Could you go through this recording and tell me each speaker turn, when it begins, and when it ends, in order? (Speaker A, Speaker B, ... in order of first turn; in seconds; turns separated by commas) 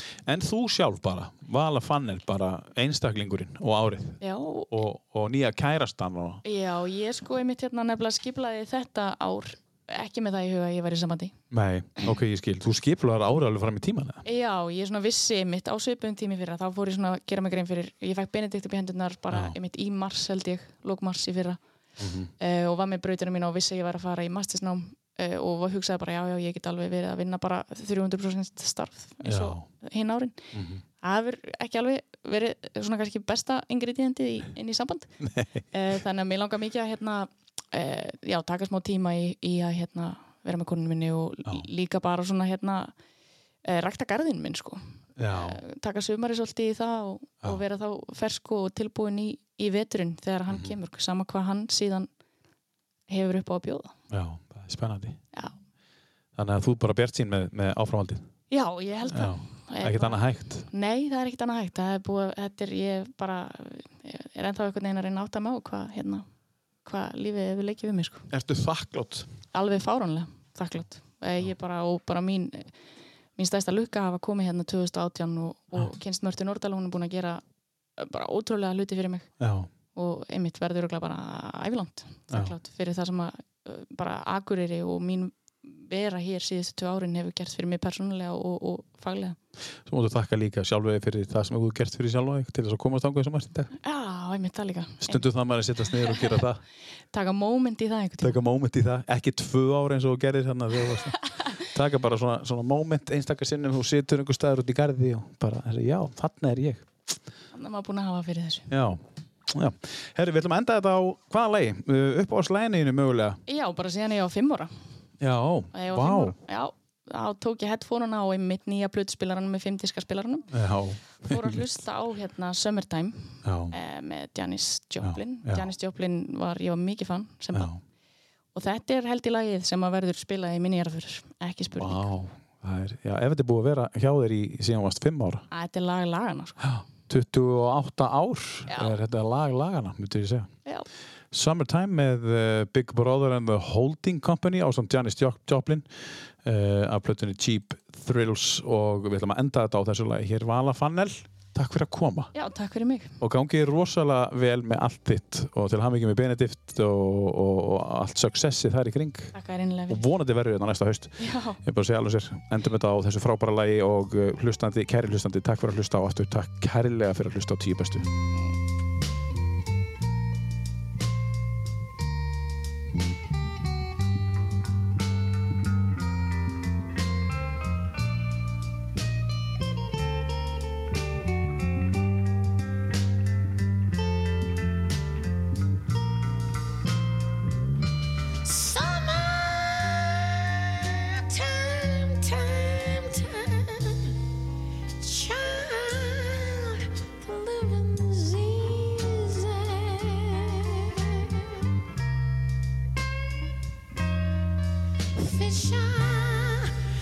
Speaker A: 0.2-6.4, Speaker B: 4.2-4.7, Speaker B: 6.4-11.3, Speaker A: 11.5-14.2, Speaker B: 14.2-21.6, Speaker A: 19.3-19.6, Speaker A: 22.0-22.3, Speaker B: 22.4-30.4, Speaker A: 29.2-29.7, Speaker A: 30.5-30.8, Speaker B: 31.0-35.1, Speaker A: 35.2-35.6, Speaker B: 35.7-42.9, Speaker B: 43.6-52.1, Speaker A: 45.2-45.6, Speaker A: 50.5-50.8, Speaker B: 53.1-53.9, Speaker A: 54.1-55.2, Speaker A: 56.4-58.3, Speaker B: 58.5-66.2, Speaker A: 59.1-60.6, Speaker B: 66.8-68.3, Speaker A: 68.3-69.3, Speaker B: 69.5-72.7, Speaker B: 73.4-77.4, Speaker B: 78.0-79.3, Speaker A: 79.4-79.7, Speaker B: 79.9-89.4, Speaker A: 89.8-93.7, Speaker B: 93.8-95.3, Speaker A: 95.0-96.6, Speaker B: 95.9-96.4, Speaker B: 97.1-98.4, Speaker A: 98.2-106.9, Speaker B: 107.5-108.7, Speaker A: 108.7-113.4, Speaker B: 113.5-114.7, Speaker A: 115.2-116.3, Speaker B: 115.7-120.5, Speaker A: 120.5-121.6, Speaker B: 121.2-127.7, Speaker A: 123.4-123.7, Speaker A: 125.0-125.7, Speaker A: 127.5-127.8, Speaker B: 128.5-132.1, Speaker A: 131.8-135.4, Speaker B: 135.5-136.7, Speaker A: 136.6-140.5, Speaker B: 138.7-138.9, Speaker A: 141.3-145.9, Speaker A: 146.4-152.3, Speaker B: 152.3-153.1, Speaker A: 153.2-159.3, Speaker B: 159.3-160.0, Speaker A: 159.9-168.1, Speaker B: 161.2-161.6, Speaker C: 188.4-194.1, Speaker C: 195.0-201.5, Speaker C: 205.2-206.7